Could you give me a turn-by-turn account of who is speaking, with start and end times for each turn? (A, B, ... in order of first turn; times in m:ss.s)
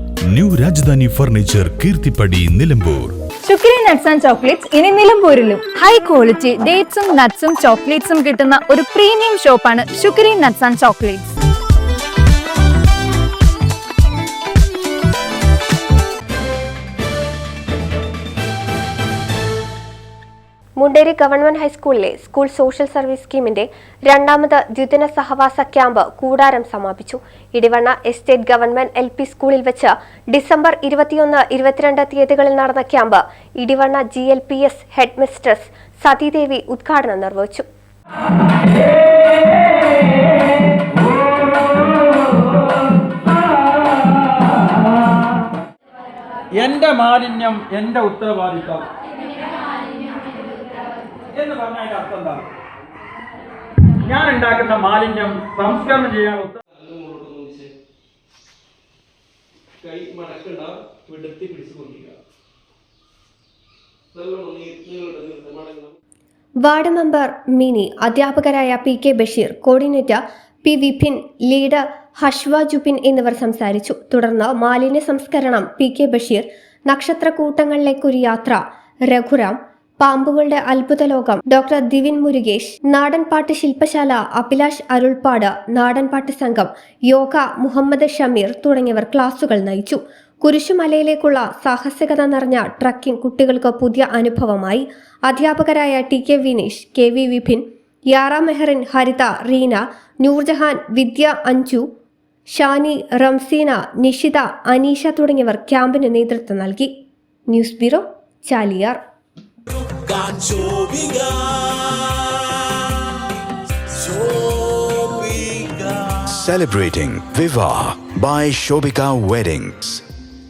0:00.3-0:03.1 A
0:03.4-0:11.3 B
0:20.8-0:37.6 C
0:46.5-0:48.9 D
0:51.3-0:52.5 D
0:54.0-0:56.6 D
0:56.7-0:57.7 E
0:59.8-1:02.2 E
1:04.1-1:06.0 E
1:06.6-1:41.8 C
1:42.5-1:46.9 C
1:47.5-1:49.0 C
1:56.2-2:00.0 F